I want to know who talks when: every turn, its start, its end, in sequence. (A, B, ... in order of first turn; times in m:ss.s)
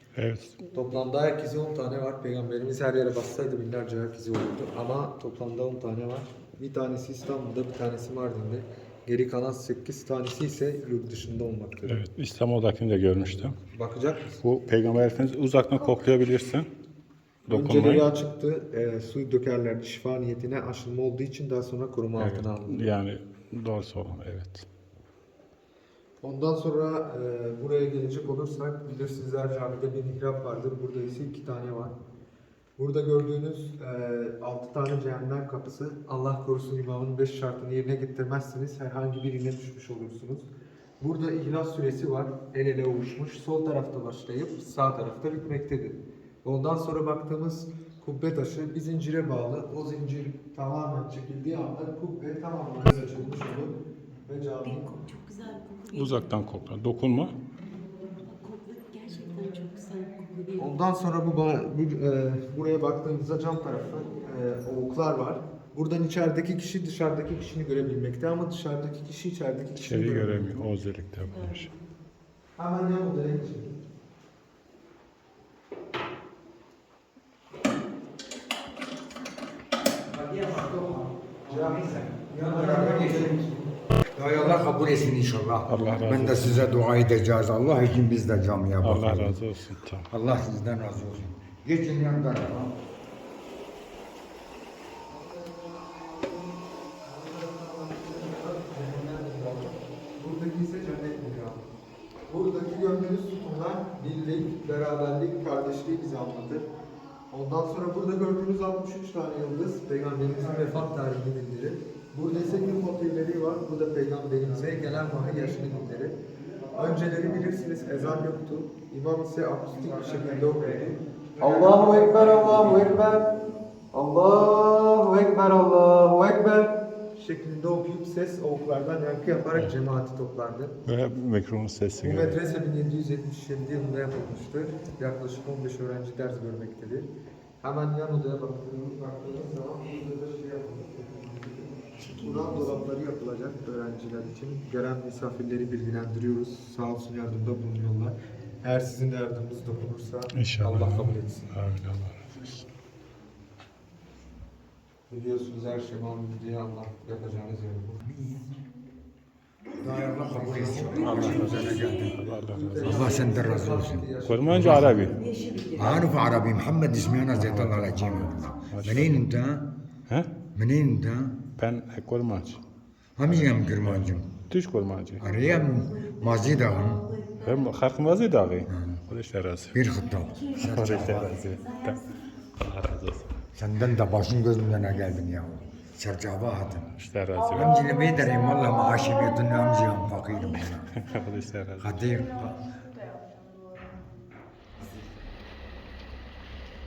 0:00.1-0:00.6 A
0:00.6-0:12.0 B
0:11.8-0:13.6 A
0:13.7-0:14.4 B
0:14.4-0:16.7 A
0:17.4-0:18.1 A
0:17.5-0:22.9 B
0:22.2-0:24.6 A
0:26.2-0:31.9 B
0:32.8-0:55.0 B
0:54.6-0:56.3 C
0:55.9-0:57.3 A
0:58.2-1:00.7 C
1:00.6-1:10.6 B
1:09.8-1:11.7 A
1:12.6-1:13.7 B
1:20.1-1:23.4 D
1:21.4-1:24.6 B
1:24.1-1:29.4 D
1:25.6-1:26.7 A
1:28.8-1:30.1 A
1:30.1-1:32.7 D
1:35.1-1:41.6 B
1:42.3-1:46.7 B
1:47.3-2:03.3 B
2:03.9-2:10.8 B
2:10.8-2:12.4 A
2:12.0-2:31.5 B
2:30.3-2:32.4 A
2:35.1-2:38.0 B
2:38.0-2:38.5 D
2:39.8-2:41.6 B
2:39.8-2:42.2 D
2:41.0-2:43.1 A
2:41.0-2:42.2 C
2:42.3-2:45.2 B
2:42.8-2:45.0 D
2:44.2-2:45.2 A
2:45.1-2:46.3 C
2:45.7-2:49.7 D
2:47.3-2:49.2 A
2:50.1-2:50.3 A
2:50.5-2:51.4 D
2:51.6-2:52.6 A
2:53.2-2:54.3 D
2:53.2-2:55.3 A
2:55.2-2:57.1 D
2:55.3-2:57.4 C
2:57.4-2:59.8 A
2:58.7-2:59.0 D
2:59.7-3:01.4 D
3:00.3-3:02.0 C
3:00.6-3:03.4 A
3:03.5-3:06.9 D
3:06.8-3:07.8 A
3:07.5-3:10.9 D
3:10.5-3:12.2 A
3:11.8-3:12.7 D